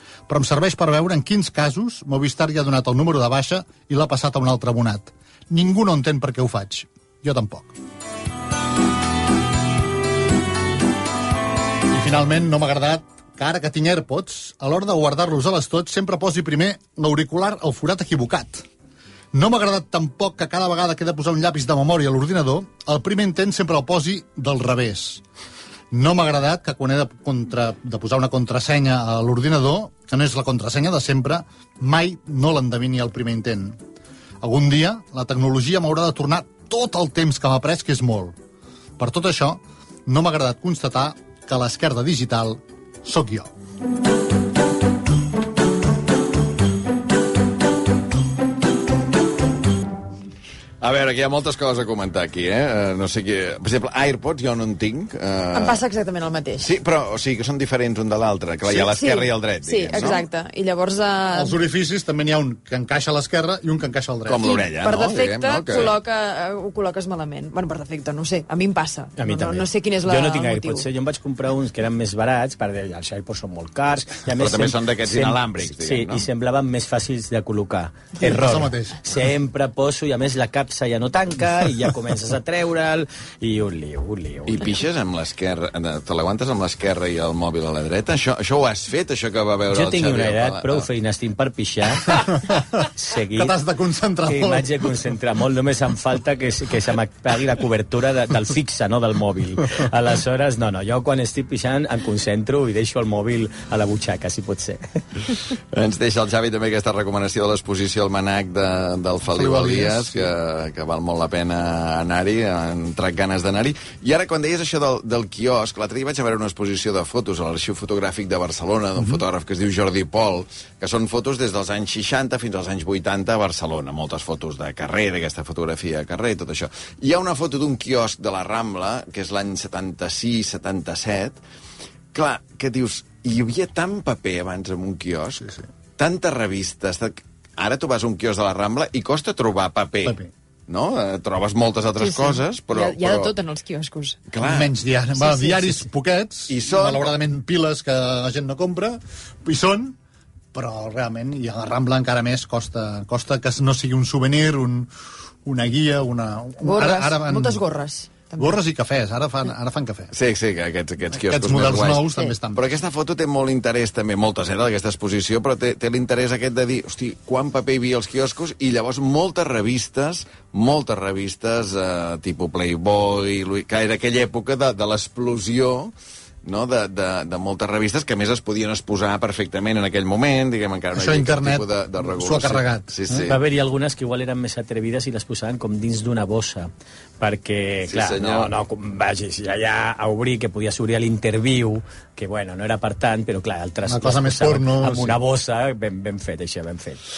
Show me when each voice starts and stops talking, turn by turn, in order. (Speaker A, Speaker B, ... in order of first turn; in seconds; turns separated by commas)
Speaker A: 0.3-7.7, Speaker A: 11.9-18.6, Speaker A: 19.3-25.2, Speaker A: 25.9-33.8, Speaker A: 34.4-38.4, Speaker A: 39.0-43.5, Speaker B: 50.8-55.8, Speaker C: 55.5-56.7, Speaker B: 56.6-60.3, Speaker C: 58.7-61.5, Speaker A: 61.3-64.5, Speaker B: 64.3-66.0, Speaker C: 64.4-70.9, Speaker D: 69.2-84.8, Speaker B: 74.4-76.3, Speaker A: 78.2-79.0, Speaker B: 84.5-90.9, Speaker D: 89.7-93.6, Speaker A: 93.3-94.8, Speaker D: 94.2-104.8, Speaker B: 105.7-131.4, Speaker A: 109.3-110.3, Speaker B: 132.1-140.2, Speaker A: 140.1-140.3, Speaker B: 140.7-143.4, Speaker C: 142.0-144.2, Speaker B: 144.3-144.7, Speaker A: 144.4-150.0, Speaker C: 145.2-145.8, Speaker B: 146.5-147.1, Speaker A: 150.5-154.9, Speaker A: 155.4-157.6, Speaker C: 156.6-158.5, Speaker A: 158.4-160.1, Speaker B: 160.1-183.4, Speaker A: 161.2-162.6, Speaker A: 180.9-183.3, Speaker D: 183.2-197.0, Speaker B: 187.9-188.5, Speaker A: 193.9-195.2